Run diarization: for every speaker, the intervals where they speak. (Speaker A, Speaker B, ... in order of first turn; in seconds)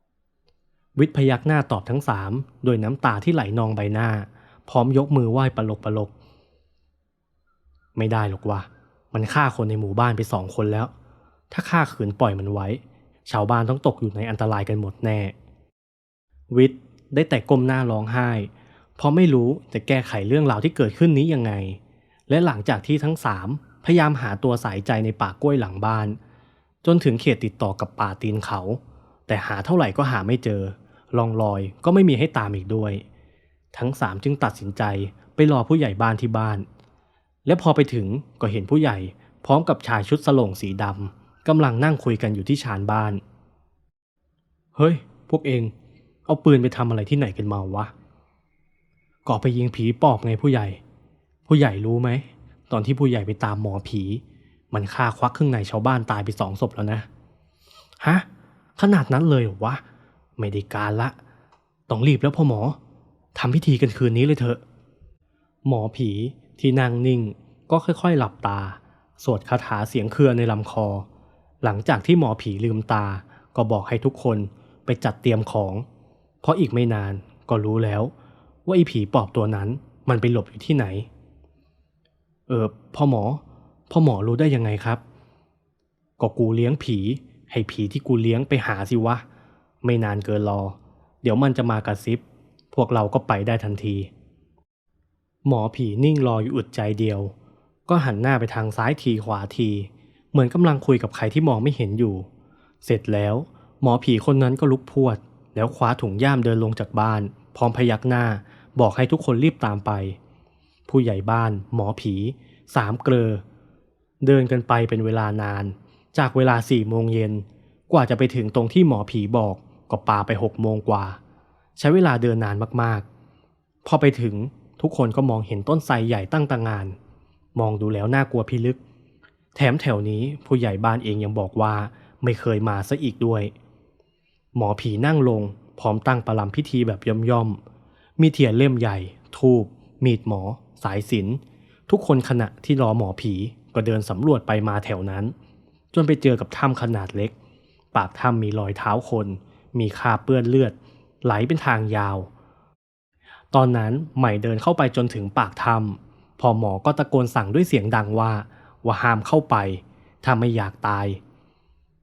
Speaker A: 0.9-6.1, 8.0-10.9, 11.5-15.3, 16.5-26.2, 26.8-33.0, 33.7-36.6, 37.5-43.2, 44.7-45.7, 46.2-47.9, 49.2-50.8, 51.5-57.1, 58.0-58.2, 58.8-59.8, 60.4-61.1, 61.9-62.8, 63.3-64.6, 65.6-71.0, 71.6-75.8, 76.4-78.1, 78.7-81.1, 82.5-85.0, 86.2-89.2, 89.8-94.1, 95.4-97.3, 97.9-102.3, 102.8-110.2, 110.9-113.4, 114.2-121.2, 121.8-123.0, 123.8-127.0, 127.5-128.8, 129.5-133.5, 134.5-137.6, 138.2-145.3, 145.9-147.3, 147.9-152.3, 153.5-161.2